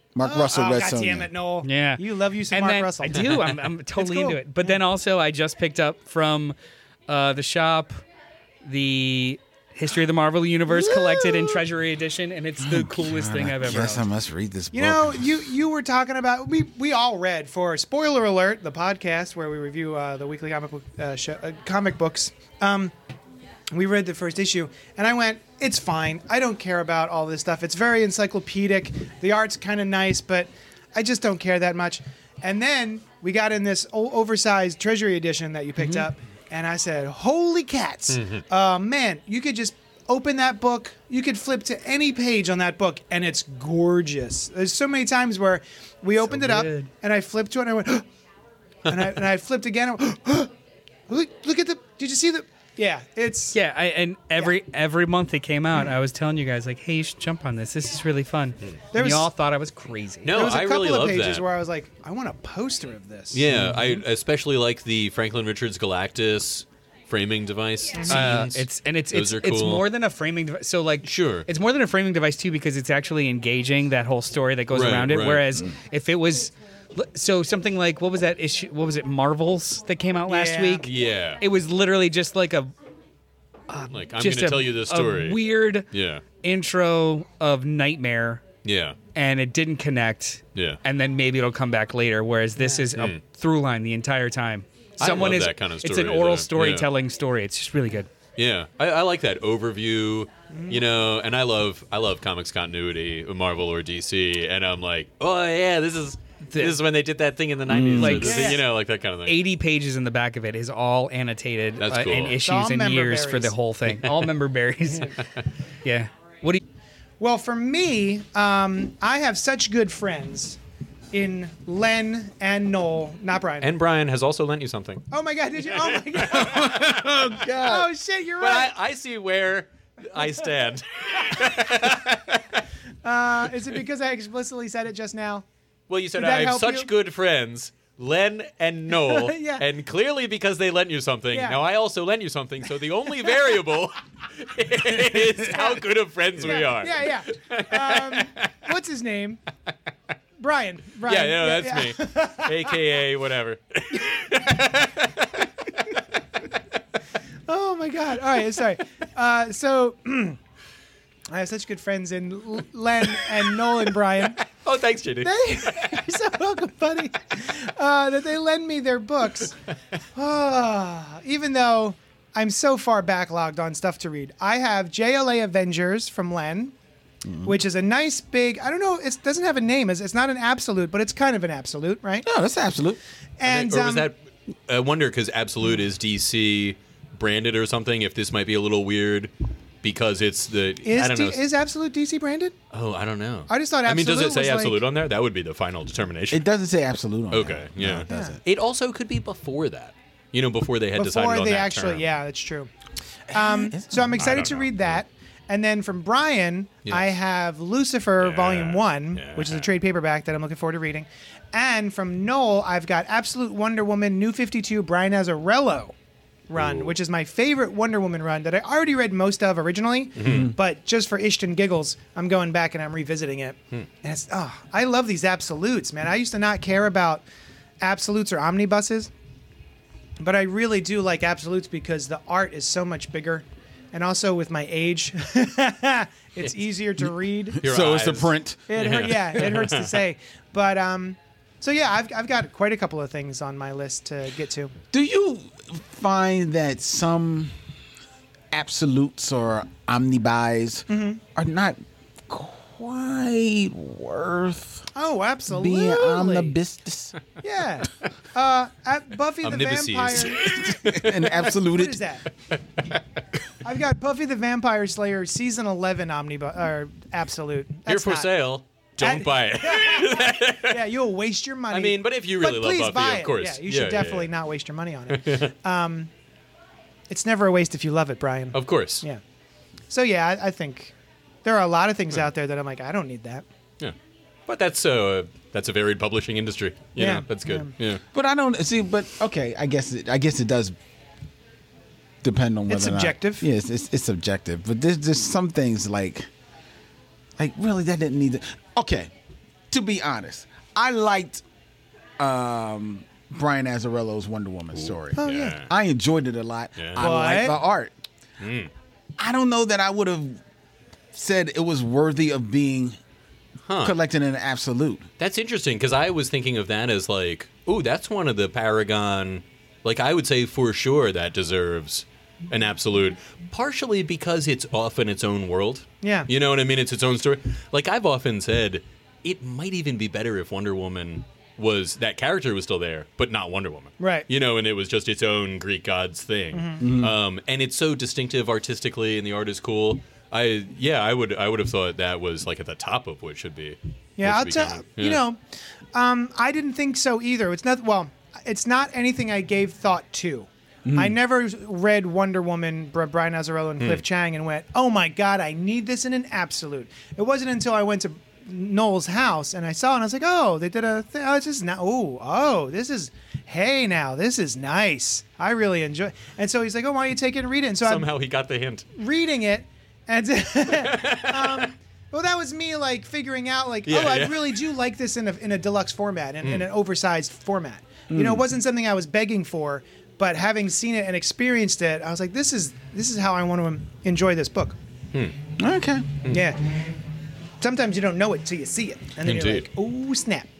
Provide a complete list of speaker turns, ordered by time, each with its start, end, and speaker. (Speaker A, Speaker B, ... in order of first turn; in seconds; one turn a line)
Speaker A: 0.1-1.3
Speaker B: 0.2-4.8
Speaker C: 1.6-6.5
Speaker C: 7.1-8.0
Speaker C: 8.6-14.1
Speaker A: 10.7-11.6
Speaker A: 12.6-15.5
Speaker B: 14.7-22.9
Speaker B: 23.7-48.1
Speaker C: 35.8-36.0
Speaker D: 38.1-38.4
Speaker C: 46.2-46.9
Speaker B: 48.9-50.5
Speaker B: 51.1-53.6
Speaker C: 53.5-60.3
Speaker B: 58.9-59.3
Speaker D: 60.2-61.5
Speaker B: 60.3-63.5
Speaker D: 63.3-69.8
Speaker C: 63.5-64.0
Speaker B: 67.9-68.3
Speaker C: 68.1-80.9
Speaker D: 71.0-71.5
Speaker D: 74.7-75.5
Speaker B: 80.3-80.9
Speaker D: 80.8-81.4
Speaker C: 81.4-82.7
Speaker C: 83.7-85.9
Speaker D: 83.9-86.2
Speaker C: 86.4-88.4
Speaker D: 88.6-89.0
Speaker C: 89.1-98.1
Speaker B: 92.6-92.9
Speaker D: 92.9-93.2
Speaker D: 95.0-96.9
Speaker D: 98.3-109.4
Speaker B: 100.5-100.8
Speaker C: 106.5-106.8
Speaker A: 107.7-108.3
Speaker C: 107.9-108.6
Speaker B: 108.1-108.6
Speaker C: 109.2-115.2
Speaker D: 111.8-112.4
Speaker B: 112.4-113.5
Speaker B: 114.9-115.1
Speaker C: 115.8-116.6
Speaker B: 117.2-120.6
Speaker B: 121.1-123.7
Speaker D: 123.6-125.1
Speaker B: 125.1-126.9
Speaker D: 125.6-127.3
Speaker A: 126.3-127.9
Speaker B: 127.5-128.7
Speaker D: 128.4-132.6
Speaker B: 131.4-131.9
Speaker B: 133.0-135.4
Speaker D: 135.9-148.5
Speaker B: 136.2-136.9
Speaker B: 139.0-139.7
Speaker B: 141.3-141.6
Speaker B: 145.4-149.4
Speaker B: 150.4-152.8
Speaker D: 151.0-156.0
Speaker B: 153.9-154.7
Speaker B: 157.5-160.4
Speaker B: 161.3-164.4
Speaker D: 163.1-166.0
Speaker B: 165.2-169.6
Speaker B: 170.1-176.7
Speaker A: 177.2-177.5
Speaker B: 177.4-182.3
Speaker A: 182.2-183.0
Speaker B: 183.4-184.1
Speaker D: 183.4-184.2
Speaker D: 184.7-189.3
Speaker D: 189.8-191.4
Speaker B: 190.8-192.5
Speaker D: 192.7-196.4
Speaker B: 193.5-194.8
Speaker A: 196.3-198.4
Speaker D: 197.3-202.1
Speaker B: 198.1-198.4
Speaker B: 200.9-202.7
Speaker A: 203.3-204.7
Speaker B: 203.3-215.9
Speaker D: 204.1-204.9
Speaker D: 206.8-207.1
Speaker D: 208.2-209.7
Speaker B: 216.5-227.2
Speaker D: 216.5-216.9
Speaker D: 220.2-220.5
Speaker A: 220.2-220.5
Speaker B: 227.8-229.1
Speaker B: 230.2-237.6
Speaker A: 237.5-239.4
Speaker D: 237.6-240.0
Speaker B: 238.7-244.8
Speaker A: 244.9-247.5
Speaker A: 248.5-254.9
Speaker B: 250.9-251.2
Speaker B: 254.9-256.6
Speaker A: 255.5-257.1
Speaker B: 257.4-262.2
Speaker D: 259.4-261.4
Speaker A: 260.6-262.0
Speaker B: 263.6-268.3
Speaker D: 267.9-270.9
Speaker B: 269.0-276.1
Speaker D: 271.7-274.3
Speaker D: 275.1-275.5
Speaker B: 277.1-279.2
Speaker D: 278.5-279.0
Speaker B: 279.9-280.9
Speaker B: 281.4-283.4
Speaker D: 284.5-288.0
Speaker B: 287.0-287.7
Speaker A: 288.1-290.7
Speaker A: 292.2-296.3
Speaker B: 292.7-293.4
Speaker A: 297.4-299.1
Speaker A: 299.7-301.4
Speaker A: 302.2-307.9
Speaker D: 304.9-305.7
Speaker B: 305.2-305.5
Speaker D: 306.8-307.1
Speaker B: 307.0-307.6
Speaker D: 308.4-308.7
Speaker A: 309.2-310.4
Speaker A: 311.1-312.9
Speaker D: 313.6-313.9
Speaker A: 313.8-315.0
Speaker D: 315.2-345.2
Speaker B: 326.0-326.3
Speaker B: 334.0-334.2
Speaker B: 336.5-336.8
Speaker A: 336.8-337.1
Speaker B: 344.2-345.4
Speaker B: 345.9-368.1
Speaker A: 350.9-351.2
Speaker D: 367.8-368.9
Speaker B: 369.0-384.8
Speaker D: 370.7-371.7
Speaker D: 373.9-374.7
Speaker D: 376.4-376.7
Speaker A: 378.1-378.4
Speaker A: 385.6-386.2
Speaker B: 386.3-386.7
Speaker B: 387.6-390.5
Speaker D: 389.2-389.6